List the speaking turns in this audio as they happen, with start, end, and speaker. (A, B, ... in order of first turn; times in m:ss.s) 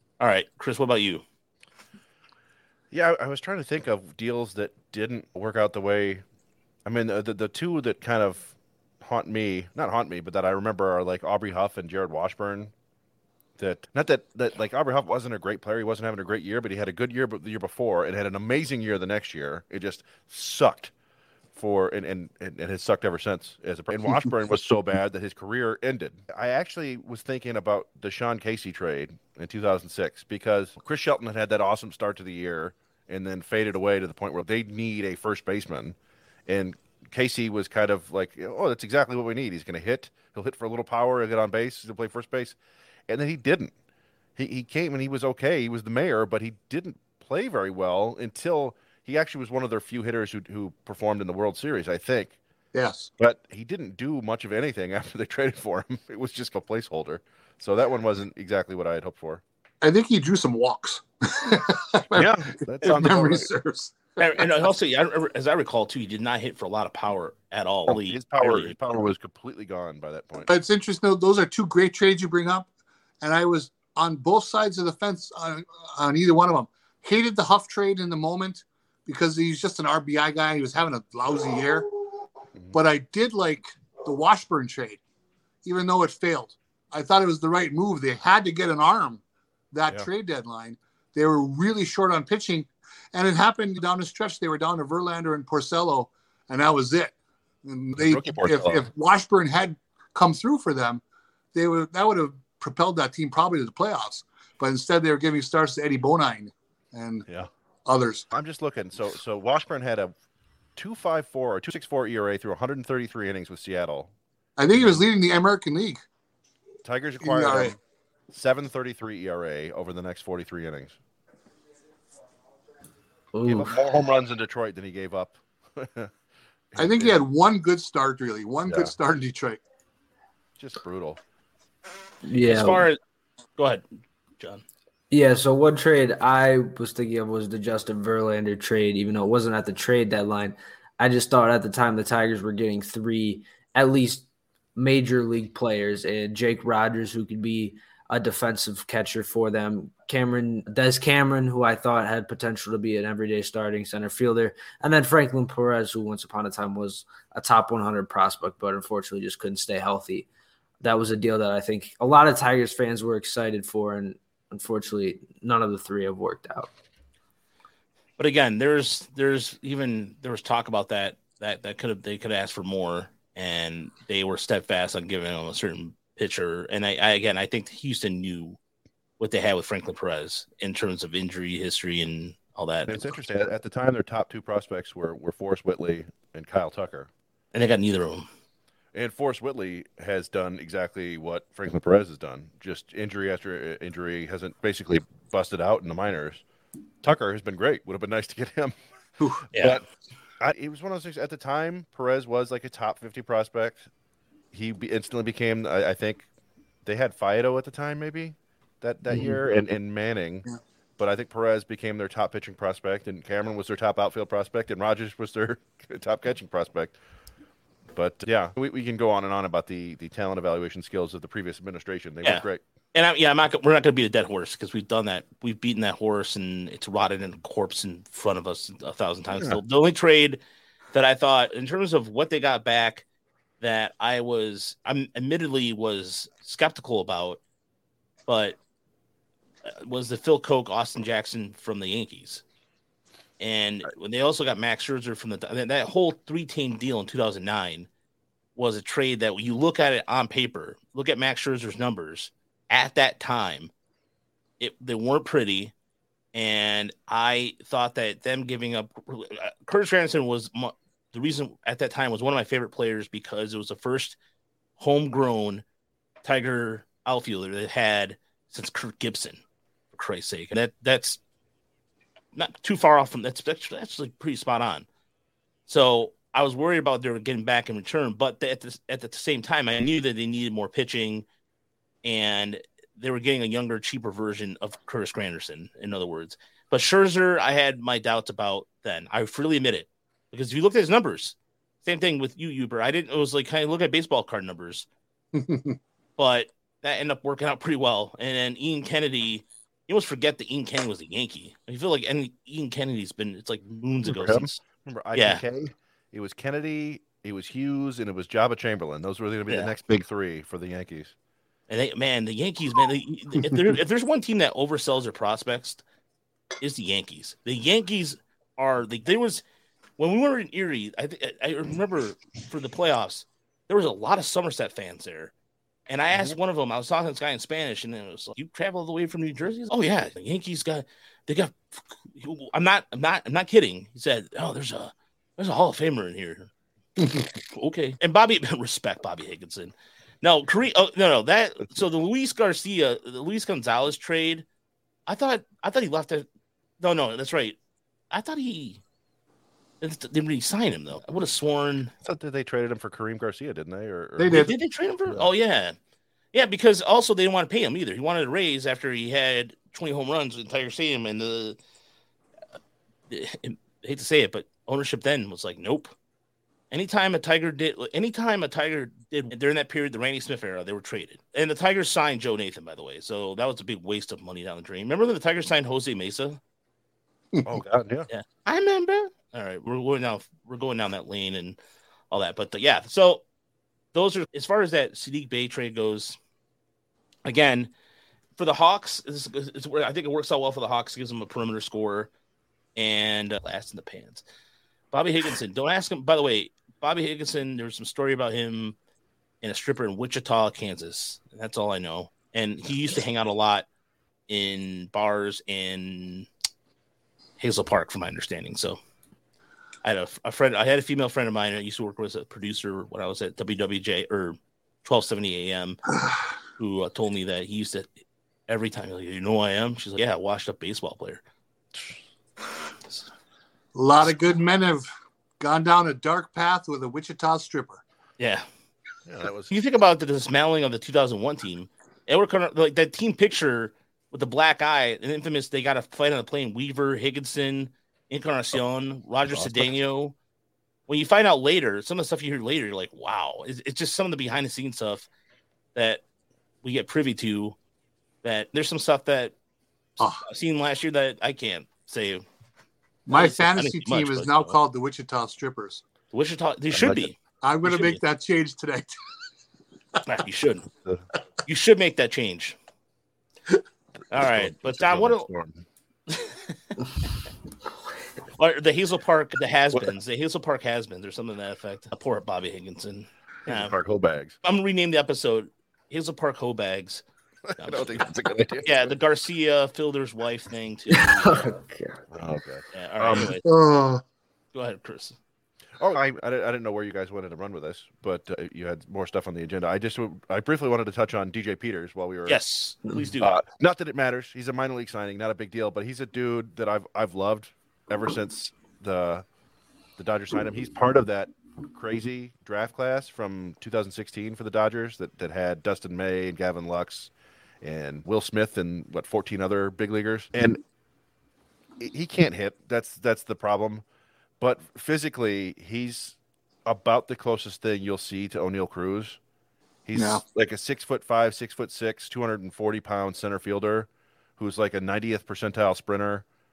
0:00.2-0:01.2 A
0:02.9-0:06.2 B
0:06.8-0:12.7 B
0:13.6-0:20.9 B
0:21.5-0:42.6 B
0:43.1-0:43.7 B
0:44.4-0:52.4 B
0:52.7-0:53.1 C
0:53.2-0:59.4 B
0:59.8-1:04.5 C
1:02.1-1:03.5 B
1:04.2-1:08.8 A
1:07.9-1:10.5 B
1:10.5-1:12.7 C
1:13.2-1:21.9 C
1:22.7-1:25.0 C
1:25.6-1:37.1 C
1:37.6-1:41.0 C
1:38.0-1:38.9 B
1:41.5-1:47.3 C
1:47.9-1:48.3 C
1:48.3-1:50.1 B
1:50.8-1:54.1 B
1:54.6-1:56.0 C
1:54.7-1:55.0 B
1:56.8-1:57.8 B
1:57.2-1:57.7 C
1:58.3-2:01.0 B
2:03.3-2:03.8 D
2:03.4-2:06.1 B
2:06.7-2:07.2 B
2:06.8-2:09.6 C
2:08.7-2:08.9 B
2:10.6-2:11.2 B
2:12.2-2:12.9 D
2:12.4-2:13.0 A
2:13.6-2:13.9 A
2:14.4-2:14.6 A
2:15.1-2:40.3 D
2:40.8-2:46.7 D
2:48.2-2:58.6 A
2:59.2-3:03.1 A
3:02.9-3:07.1 B
3:07.5-3:08.3 A
3:08.9-3:16.4 B
3:17.0-3:18.8 B
3:19.5-3:19.8 A
3:19.5-3:19.9 B
3:20.4-3:23.9 B
3:24.5-3:26.3 B
3:26.8-3:30.5 B
3:31.0-3:37.0 B
3:37.9-3:42.6 B
3:42.2-3:50.4 A
3:50.9-3:53.0 A
3:53.6-3:57.4 A
3:58.3-3:58.6 A
3:59.6-4:02.4 A
4:03.4-4:07.9 A
4:08.6-4:13.7 A
4:14.6-4:15.7 A
4:16.3-4:24.2 A
4:24.8-4:25.6 A
4:26.2-4:29.4 A
4:29.9-4:31.2 A
4:32.4-4:34.9 A
4:35.7-4:41.2 A
4:42.0-4:54.9 A
4:55.4-4:55.8 C
4:56.2-5:04.6 A
5:04.1-5:11.1 B
5:05.2-5:05.4 A
5:11.7-5:15.8 A
5:16.6-5:19.4 A
5:20.0-5:25.3 A
5:25.9-5:36.5 A
5:37.5-5:44.4 A
5:45.1-5:46.3 A
5:46.8-5:47.6 A
5:48.1-5:48.8 A
5:49.8-5:51.9 A
5:52.0-5:54.5 B
5:54.2-5:54.5 C
5:54.3-5:55.8 A
5:56.3-6:01.6 A
6:03.1-6:05.9 A
6:06.7-6:16.4 A
6:17.4-6:18.1 B
6:18.1-6:21.6 A
6:22.1-6:23.2 A
6:23.9-6:26.2 A
6:27.2-6:27.7 A
6:28.4-6:32.1 A
6:32.8-6:34.2 A
6:34.9-6:38.8 A
6:39.4-6:43.7 A
6:44.3-6:46.3 A
6:47.4-6:48.8 A
6:49.8-6:55.8 A
6:56.6-6:57.9 A
6:58.5-7:01.2 A
7:03.8-7:04.9 C
7:05.4-7:07.8 C
7:08.2-7:08.5 A
7:09.1-7:09.5 B
7:09.5-7:20.2 A
7:19.3-7:19.7 B
7:20.9-7:25.1 A
7:25.8-7:26.0 A
7:26.6-7:27.6 A
7:28.2-7:29.3 A
7:30.0-7:32.2 A
7:33.1-7:35.8 C
7:33.1-7:34.5 A
7:36.1-7:38.0 A
7:36.7-7:37.1 B
7:37.4-7:38.9 C
7:40.0-7:40.7 A
7:41.5-7:42.6 A
7:44.1-7:45.3 A
7:44.1-7:45.7 B
7:46.1-7:46.6 A
7:48.4-7:53.8 A
7:53.5-7:54.4 B
7:54.4-7:57.0 A
7:57.5-7:59.0 B
7:57.6-7:58.1 A
7:58.6-8:01.6 A
8:00.9-8:02.0 D
8:02.1-8:03.4 B
8:02.7-8:03.4 A
8:03.4-8:04.0 C
8:04.5-8:05.2 A
8:05.8-8:12.4 B
8:12.3-8:13.4 A
8:12.9-8:13.1 D
8:13.2-8:19.2 B
8:20.0-8:30.6 B
8:31.8-8:33.8 B
8:34.4-8:39.2 B
8:39.9-8:46.2 B
8:40.0-8:40.2 C